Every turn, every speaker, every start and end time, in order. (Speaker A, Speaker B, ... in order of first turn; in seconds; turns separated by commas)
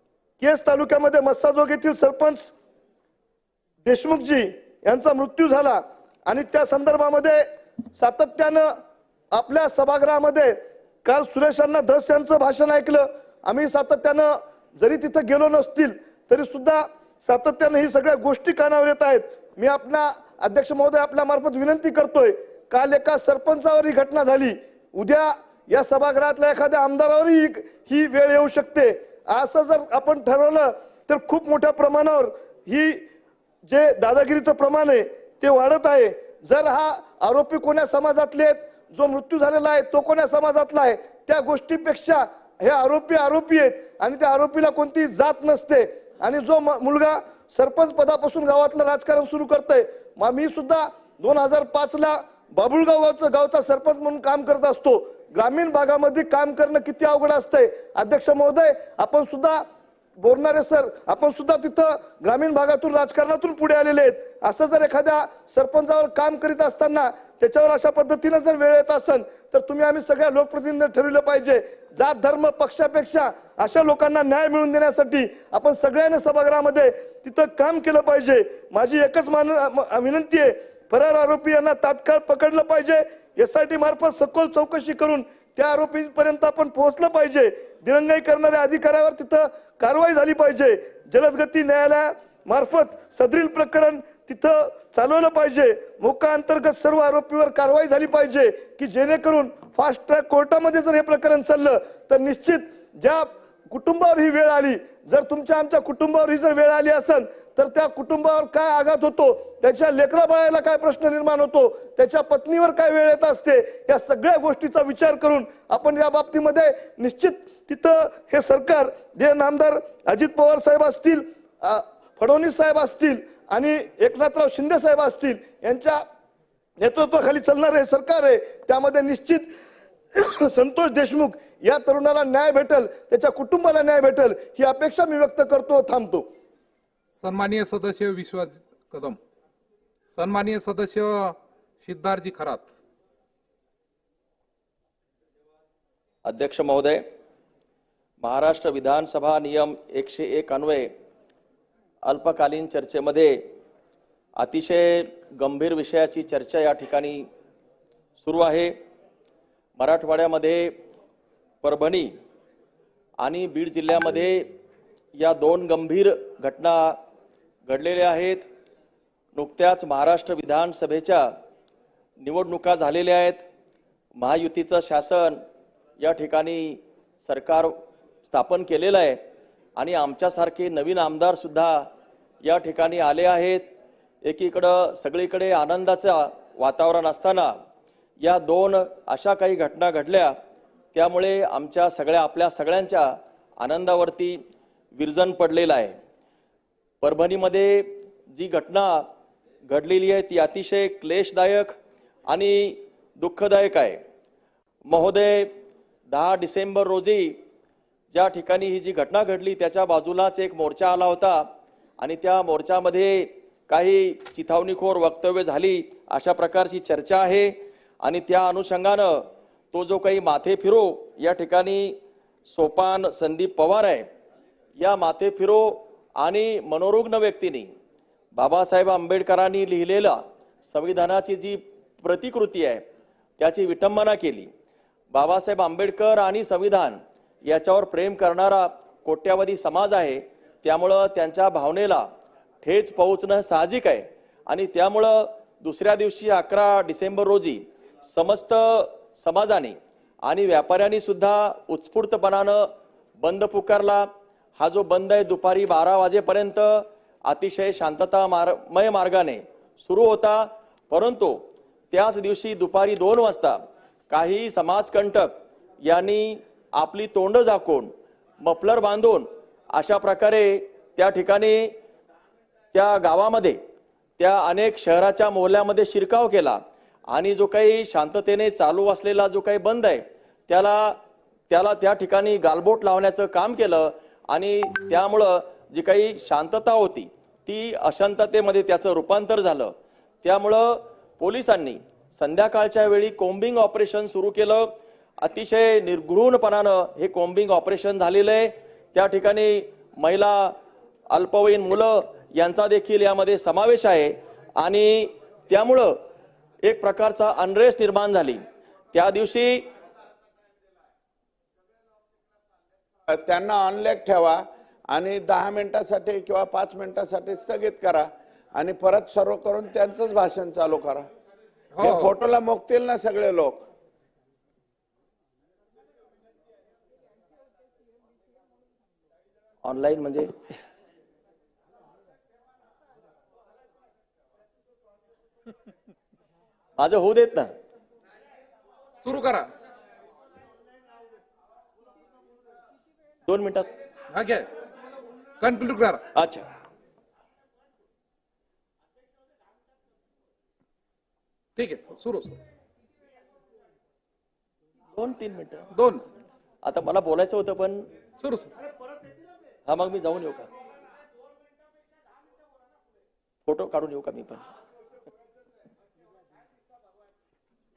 Speaker A: 0.4-2.5, Speaker A: 3.8-8.7, Speaker A: 9.3-33.0, Speaker A: 33.6-59.6, Speaker A: 60.2-126.0, Speaker A: 126.8-129.5, Speaker A: 130.1-136.2, Speaker B: 137.2-139.2, Speaker B: 140.1-142.7, Speaker C: 146.2-147.0, Speaker C: 148.2-150.9, Speaker C: 152.1-153.4, Speaker C: 154.4-157.2, Speaker C: 158.2-158.7, Speaker C: 159.8-160.7, Speaker C: 161.6-162.1, Speaker C: 163.2-164.5, Speaker C: 165.2-167.0, Speaker C: 167.7-168.4, Speaker C: 169.3-171.3, Speaker C: 172.2-173.4, Speaker C: 174.2-175.4, Speaker C: 176.0-177.7, Speaker C: 178.2-179.2, Speaker C: 179.8-181.9, Speaker C: 182.4-183.7, Speaker C: 184.2-187.5, Speaker C: 188.2-190.3, Speaker C: 190.9-194.4, Speaker C: 194.9-195.9, Speaker C: 197.0-199.1, Speaker C: 199.7-201.7, Speaker C: 202.3-204.0, Speaker C: 204.9-205.5, Speaker C: 206.1-207.4, Speaker C: 208.1-211.4, Speaker C: 212.0-221.9, Speaker C: 222.5-224.1, Speaker C: 224.8-227.7, Speaker C: 228.3-232.8, Speaker C: 233.4-234.5, Speaker C: 235.1-242.0, Speaker C: 242.6-252.7, Speaker C: 253.2-254.1, Speaker C: 254.6-261.4, Speaker C: 261.9-263.6, Speaker C: 264.1-271.7, Speaker C: 272.7-273.6, Speaker C: 274.2-281.0, Speaker C: 281.5-294.7, Speaker C: 295.2-300.6, Speaker C: 301.1-305.9, Speaker C: 306.6-308.4, Speaker C: 308.9-309.7, Speaker D: 313.1-321.1, Speaker B: 321.8-322.1, Speaker D: 321.8-323.6, Speaker C: 329.6-330.3, Speaker C: 336.8-337.5, Speaker B: 339.0-339.5, Speaker C: 343.2-343.7, Speaker B: 344.1-344.5, Speaker B: 345.4-346.0, Speaker C: 346.1-346.5, Speaker B: 351.6-352.4, Speaker C: 354.9-355.7, Speaker B: 355.7-356.1, Speaker C: 356.6-357.9, Speaker B: 358.2-358.5, Speaker C: 359.7-360.5, Speaker C: 363.4-364.5